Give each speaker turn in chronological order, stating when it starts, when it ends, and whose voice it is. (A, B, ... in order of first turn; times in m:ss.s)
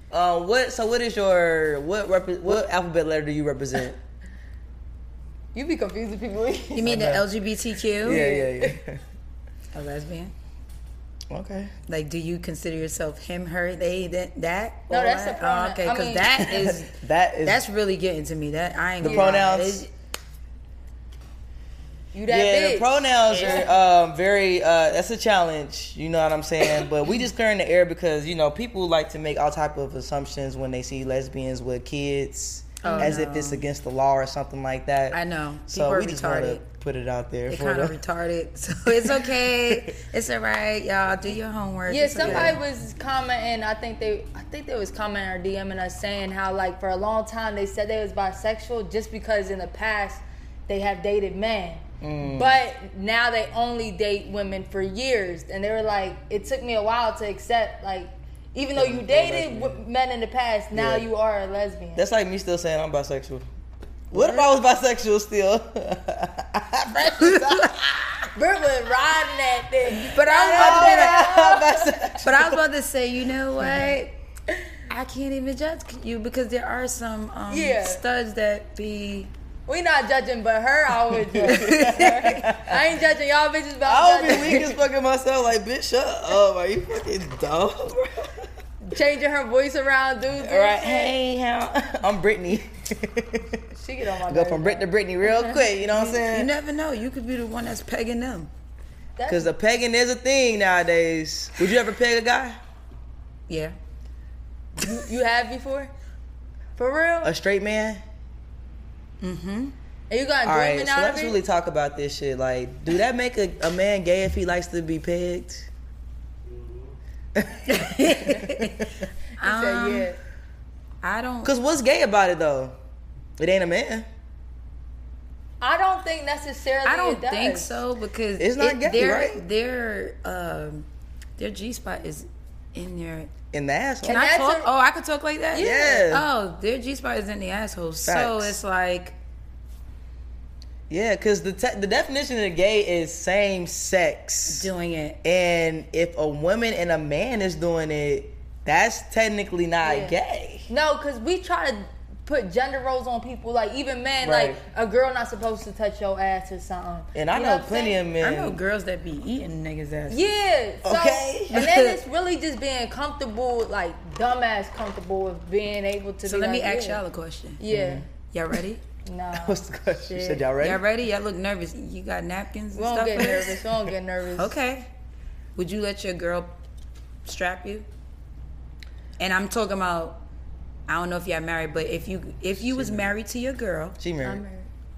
0:00.1-0:04.0 A
0:05.6-0:06.9 B
0:06.7-0:08.3 C
0:06.8-0:07.2 A
0:08.0-0:08.8 B
0:08.0-0:09.0 A
0:09.7-0:10.3 C
0:11.3-0:11.7 A
0:11.9-0:19.9 C
0:14.9-0:16.5 B
0:16.5-0:17.6 A
0:19.0-0:19.8 A
0:19.0-0:19.4 B
0:22.1-0:23.7 B
0:22.3-0:35.2 A
0:32.8-0:33.6 C
0:32.8-0:33.2 B
0:35.1-0:36.6 C
0:35.7-0:38.0 A
0:37.5-0:42.6 C
0:41.9-1:02.0 B
0:42.2-0:42.6 A
0:52.0-0:52.6 A
0:58.8-0:59.8 A
1:00.7-1:01.1 A
1:02.0-1:03.5 A
1:04.1-1:07.8 A
1:04.1-1:04.5 C
1:07.2-1:07.7 C
1:08.4-1:11.9 B
1:09.9-1:11.3 C
1:10.5-1:12.5 A
1:12.2-1:14.2 C
1:14.9-1:19.3 C
1:17.5-1:18.0 B
1:19.7-1:24.7 B
1:21.4-1:22.7 A
1:21.5-1:22.2 C
1:23.9-1:28.4 A
1:28.8-1:31.2 B
1:30.4-1:33.6 A
1:33.7-1:35.6 B
1:34.3-1:36.5 A
1:35.9-1:38.5 C
1:39.2-1:39.5 B
1:39.3-1:42.6 A
1:43.5-1:43.8 C
1:44.8-1:45.9 B
1:46.8-1:47.3 B
1:47.2-1:48.0 A
1:49.2-1:49.8 C
1:50.1-1:51.4 B
1:50.4-1:55.7 A
1:57.4-1:58.9 A
1:57.7-2:00.1 C
1:59.4-2:00.2 B
2:01.0-2:01.5 C
2:01.4-2:02.8 A
2:03.4-2:04.1 A
2:05.6-2:07.8 B
2:06.8-2:13.3 C
2:08.4-2:09.4 A
2:13.5-2:14.2 A
2:14.0-2:14.7 B
2:14.0-2:19.2 C
2:15.5-2:16.1 B
2:15.6-2:16.2 A
2:18.0-2:18.6 A
2:20.9-2:24.7 A
2:24.5-2:25.2 C
2:25.2-2:30.7 A
2:29.8-2:30.1 B
2:30.7-2:38.0 B
2:34.2-2:34.6 A
2:37.2-2:38.6 A
2:38.2-2:40.3 C
2:40.1-2:47.0 B
2:40.8-2:41.6 A
2:41.5-2:42.0 C
2:46.2-2:47.6 C
2:47.6-2:48.0 B
2:47.7-2:48.0 A
2:48.3-2:48.8 C
2:49.0-2:50.5 B
2:49.4-2:50.8 A
2:50.6-2:53.6 C
2:52.7-2:54.5 B
2:54.3-2:54.9 C
2:55.6-2:56.6 C
2:57.2-2:57.9 C
2:59.2-3:00.2 C
3:00.9-3:04.0 C
3:02.6-3:03.1 A
3:04.0-3:04.4 A
3:04.2-3:04.7 B